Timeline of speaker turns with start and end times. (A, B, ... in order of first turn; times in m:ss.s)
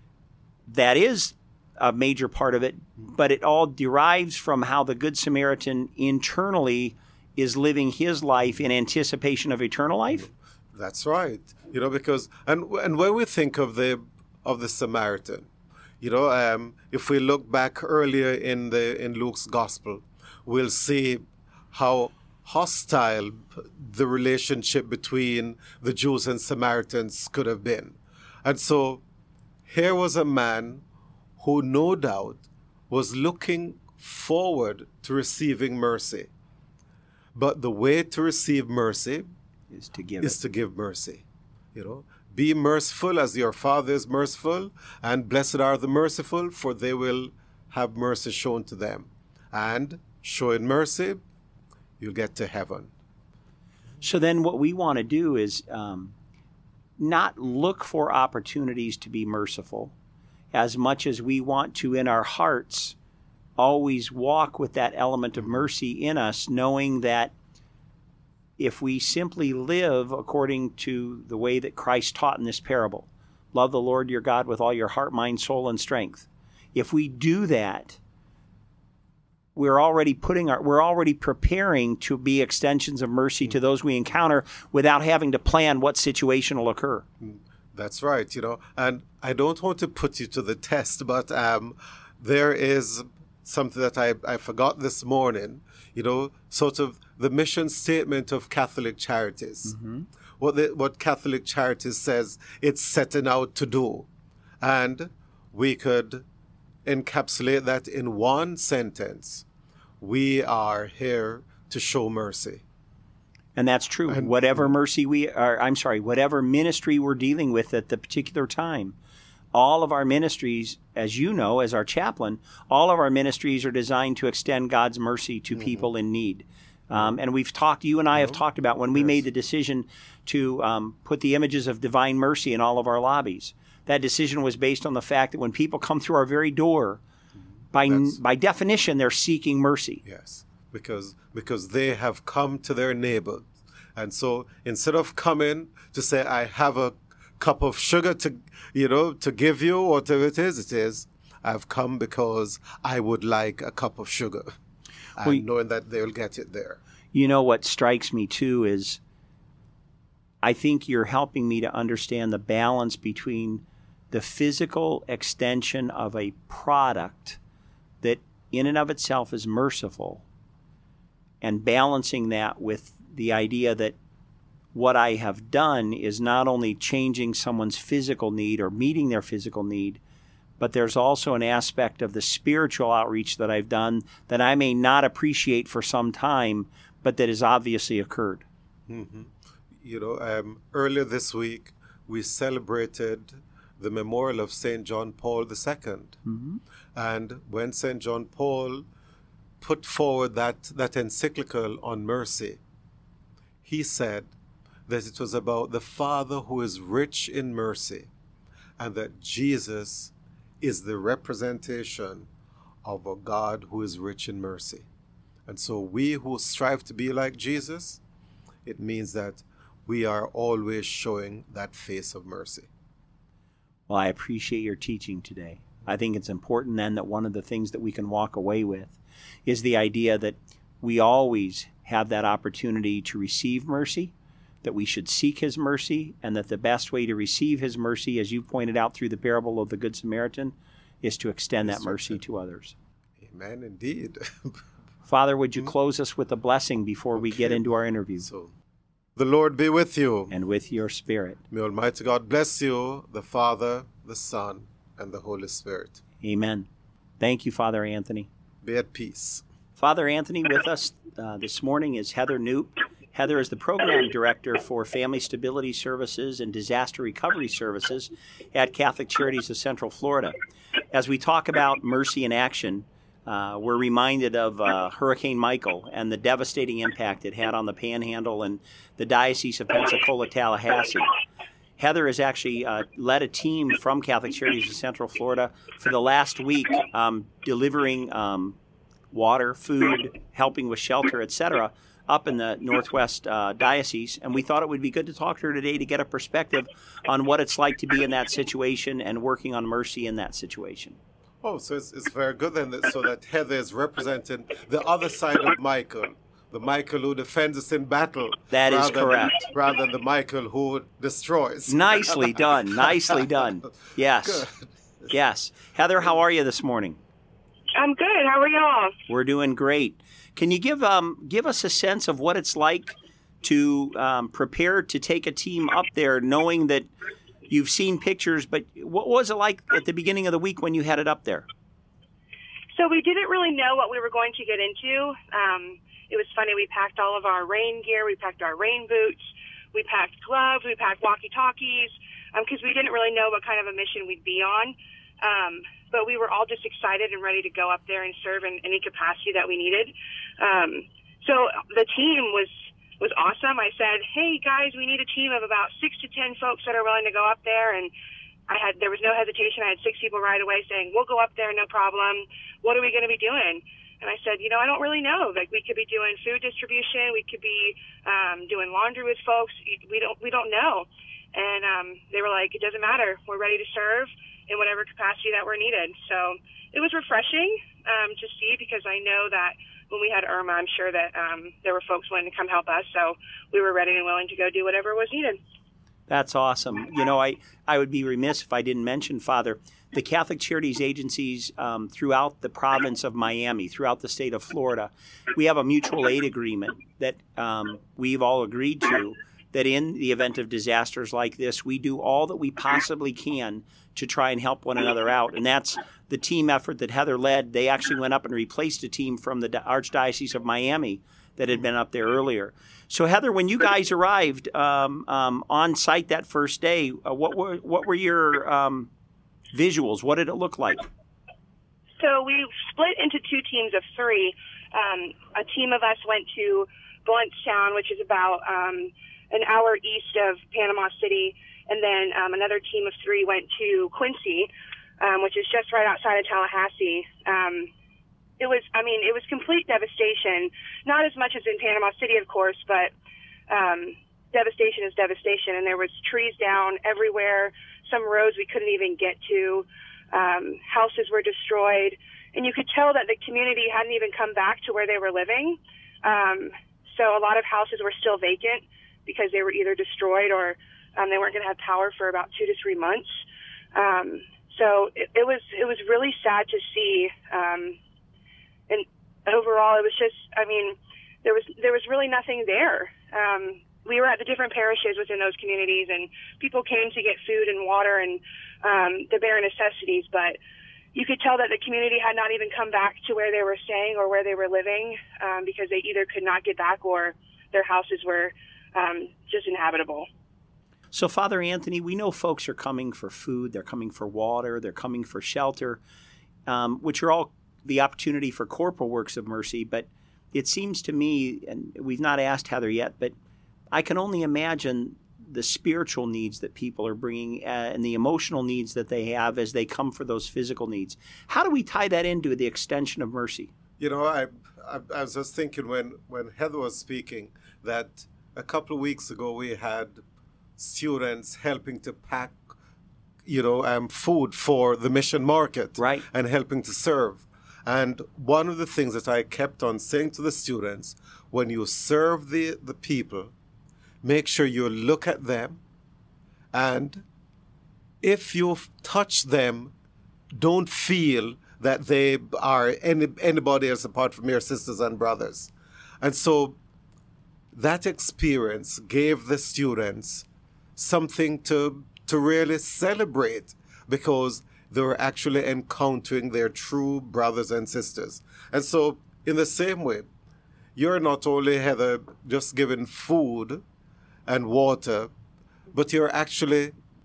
0:00.7-0:10.3 A
0:10.7-0:15.5 B
0:16.0-0:29.0 B
0:29.7-0:30.8 B
0:31.4-0:36.3 B
0:37.4-0:39.3 B
0:39.7-0:40.4 A
0:40.2-0:41.2 B
0:41.8-0:51.2 B
0:52.0-0:52.9 B
0:54.0-0:56.1 A
0:57.0-0:59.9 A
1:00.5-1:03.0 A
1:03.6-1:07.3 A
1:08.6-1:18.0 A
1:19.6-1:27.0 A
1:27.2-1:39.8 B
1:39.7-1:40.1 A
1:40.4-1:44.1 B
1:44.6-1:46.2 B
1:46.9-1:49.5 B
1:50.0-1:52.6 B
1:53.6-1:59.0 A
1:54.1-1:54.7 B
1:59.5-2:17.0 A
2:05.6-2:05.9 B
2:17.7-2:20.0 A
2:17.9-2:18.2 B
2:20.0-2:34.5 B
2:35.2-2:36.8 B
2:37.1-2:39.0 A
2:40.4-2:47.4 A
2:48.0-2:50.2 A
2:51.4-2:54.0 A
2:54.7-3:00.0 A
3:00.6-3:08.4 A
3:08.9-3:16.2 B
3:16.3-3:16.6 A
3:17.0-3:18.9 B
3:19.6-3:22.6 B
3:23.6-3:24.3 B
3:24.9-3:28.1 B
3:28.8-3:32.3 B
3:32.8-3:34.9 B
3:35.5-3:38.0 B
3:38.6-3:42.7 B
3:43.9-4:02.8 A
4:01.6-4:02.2 B
4:03.2-4:04.6 B
4:05.1-4:08.3 A
4:07.2-4:07.6 B
4:08.2-4:08.5 B
4:09.2-4:10.3 B
4:10.3-4:11.4 A
4:11.5-4:16.0 B
4:16.2-4:16.7 A
4:17.2-4:18.3 A
4:18.6-4:19.4 B
4:19.8-4:30.4 A
4:30.9-4:41.1 A
4:41.8-4:48.6 A
4:49.1-5:01.0 A
5:01.4-5:12.4 B
5:08.5-5:09.5 A
5:11.7-5:14.5 A
5:14.2-5:14.6 B
5:15.1-5:17.0 A
5:17.8-5:18.9 C
5:19.1-5:26.9 A
5:27.5-5:31.5 A
5:32.7-5:57.9 C
5:58.5-6:25.4 C
6:26.1-6:58.9 A
6:59.5-7:00.9 A
7:02.0-7:17.7 C
7:18.4-7:22.9 C
7:23.5-7:43.1 C
7:43.7-7:47.8 C
7:48.7-8:00.4 C
8:00.9-8:10.1 C
8:10.9-8:15.8 A
8:16.5-8:23.2 A
8:23.7-8:33.5 A
8:33.8-8:40.0 B
8:40.6-8:42.4 B
8:43.2-8:53.3 B
8:45.8-8:46.0 A
8:54.0-8:55.6 B
8:56.5-8:57.0 B
8:58.0-8:59.7 B
9:00.3-9:06.6 B
9:07.5-9:20.1 B
9:20.8-9:23.6 B
9:24.3-9:25.1 B
9:25.7-9:26.8 B